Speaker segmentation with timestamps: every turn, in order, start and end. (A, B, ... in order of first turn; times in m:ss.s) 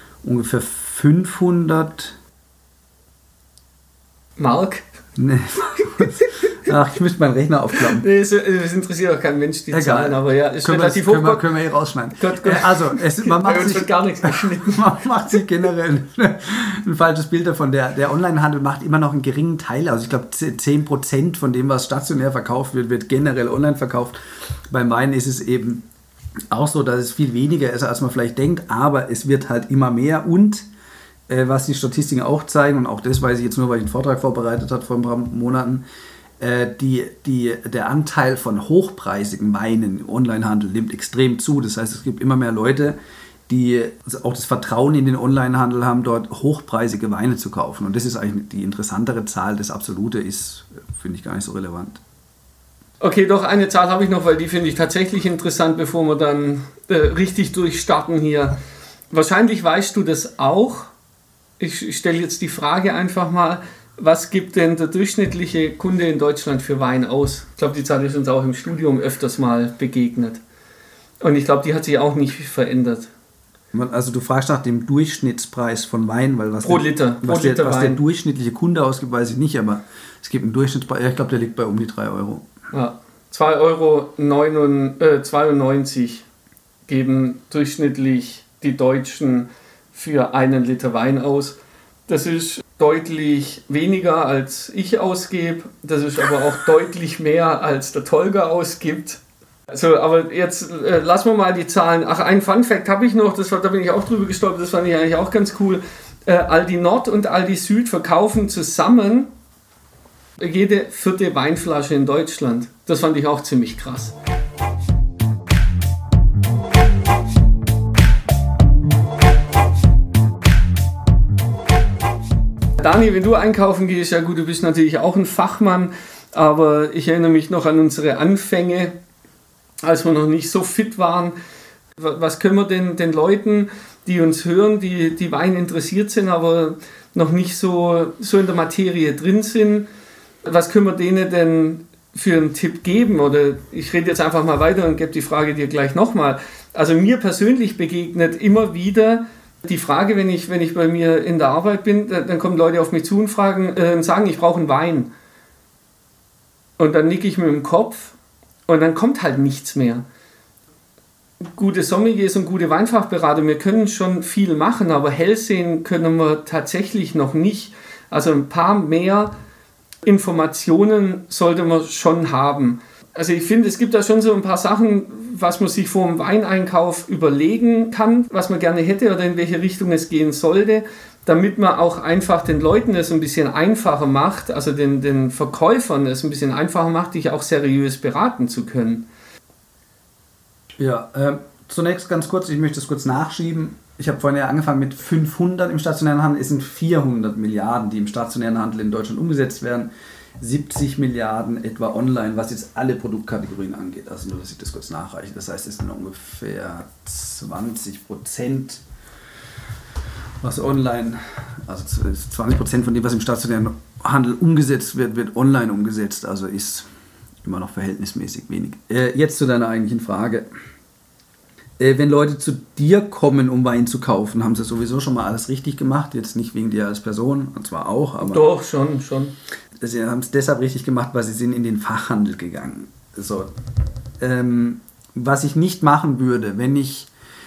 0:00.2-0:02.2 A
0:04.4-0:04.8 B
0:05.2-0:08.0 A
0:08.0-0:11.4 B
0:09.7-0:24.2 A
0:12.2-0:14.9 B
0:24.7-0:25.8 A
0:26.5-0:30.7 A
0:31.3-0:35.8 A
0:36.4-0:43.0 A
0:43.5-0:52.0 A
0:53.0-0:58.6 B
0:59.1-1:00.9 B
1:01.6-1:10.4 B
1:11.2-1:13.1 B
1:13.7-1:22.5 A
1:16.6-1:18.0 B
1:22.7-1:26.2 B
1:26.9-1:49.3 B
1:50.4-1:54.1 B
2:02.8-2:09.0 B
2:09.8-2:11.4 B
2:12.0-2:19.9 B
2:20.4-2:35.1 B
2:36.8-2:38.2 B
2:38.7-2:40.0 B
2:41.4-2:49.3 B
2:50.0-3:09.1 B
3:10.8-3:28.8 A
3:30.4-3:36.9 A
3:37.4-3:40.5 A
3:41.8-3:48.5 A
3:48.2-3:49.3 B
3:49.8-3:53.5 A
3:54.2-3:57.1 A